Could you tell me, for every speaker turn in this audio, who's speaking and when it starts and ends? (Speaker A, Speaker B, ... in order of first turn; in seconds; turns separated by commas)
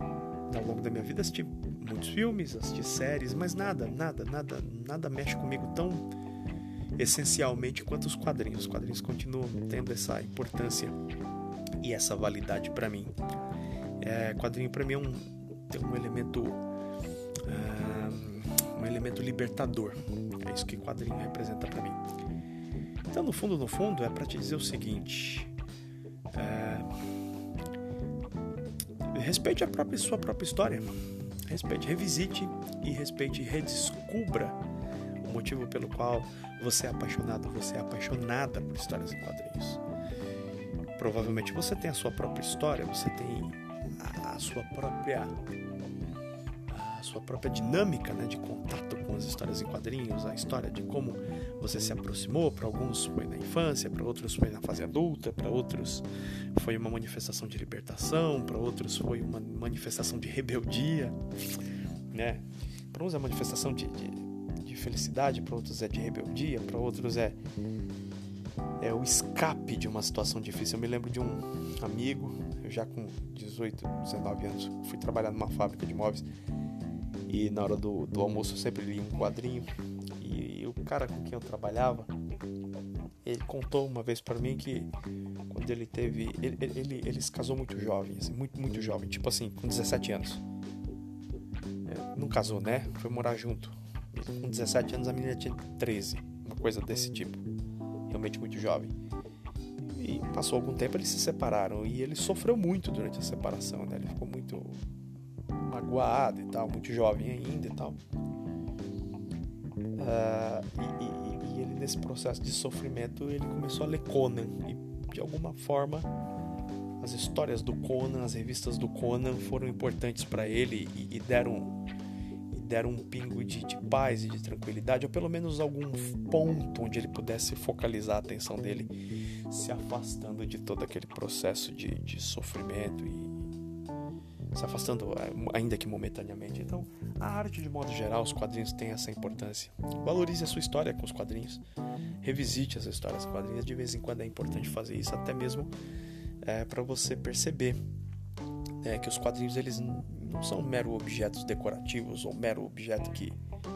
Speaker A: 0.5-6.1, Speaker A: 7.0-11.0, Speaker A: 11.8-13.1, Speaker A: 14.0-16.6, Speaker A: 17.4-22.1, Speaker A: 23.1-25.5, Speaker A: 26.3-26.9, Speaker A: 29.1-30.9, Speaker A: 31.5-34.6, Speaker A: 35.2-39.8, Speaker A: 41.0-45.4, Speaker A: 46.7-61.3, Speaker A: 62.1-67.4, Speaker A: 68.8-76.2, Speaker A: 77.3-79.7, Speaker A: 80.2-82.1, Speaker A: 83.2-84.9, Speaker A: 85.5-90.4, Speaker A: 91.8-97.4, Speaker A: 98.1-98.9, Speaker A: 99.8-104.8, Speaker A: 105.5-108.0, Speaker A: 110.0-116.1, Speaker A: 117.0-121.8, Speaker A: 122.5-128.9, Speaker A: 129.5-133.4, Speaker A: 134.5-141.6, Speaker A: 142.2-145.7, Speaker A: 146.4-147.8, Speaker A: 148.8-153.4